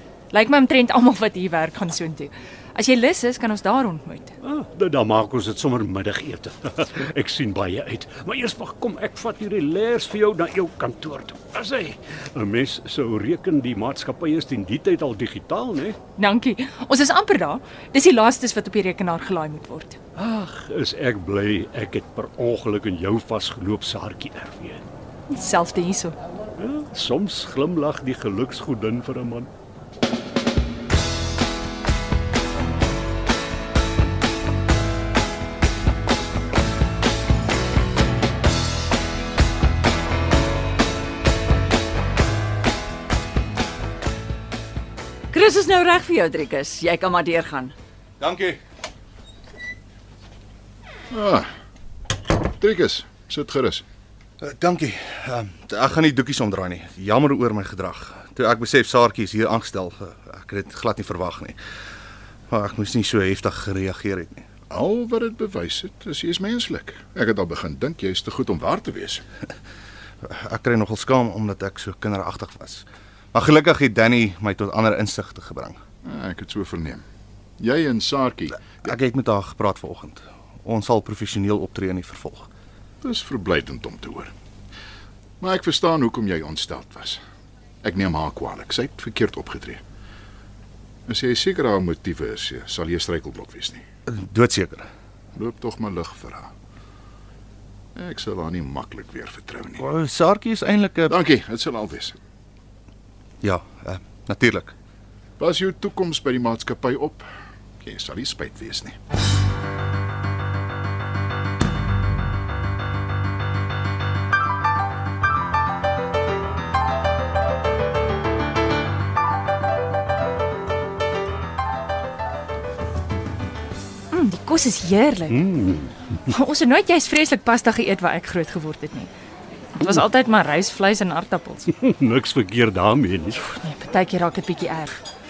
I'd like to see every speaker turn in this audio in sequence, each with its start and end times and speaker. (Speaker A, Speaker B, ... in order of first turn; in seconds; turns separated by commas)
Speaker A: 0.3-4.3, Speaker B: 4.4-16.0, Speaker A: 16.2-20.0, Speaker B: 20.1-24.8, Speaker A: 25.3-26.1, Speaker B: 26.6-29.5, Speaker C: 45.3-47.7, Speaker D: 48.2-48.6, Speaker E: 51.1-51.5, Speaker E: 52.6-53.8, Speaker D: 54.4-61.6, Speaker D: 62.5-64.5, Speaker E: 64.7-69.2, Speaker D: 70.2-75.8, Speaker E: 76.0-77.0, Speaker E: 77.6-78.7, Speaker D: 78.6-82.5, Speaker E: 83.0-84.3, Speaker E: 85.4-87.2, Speaker E: 87.8-89.8, Speaker E: 91.1-93.8, Speaker D: 94.1-94.9, Speaker E: 95.3-96.5, Speaker E: 98.0-99.8, Speaker D: 99.8-101.2, Speaker E: 101.1-102.2, Speaker D: 103.4-104.7, Speaker E: 105.4-107.2, Speaker E: 107.8-109.0, Speaker A: 124.1-125.4, Speaker B: 125.3-126.2, Speaker A: 126.3-129.1, Speaker A: 129.8-131.7, Speaker B: 131.7-133.5, Speaker A: 133.6-135.0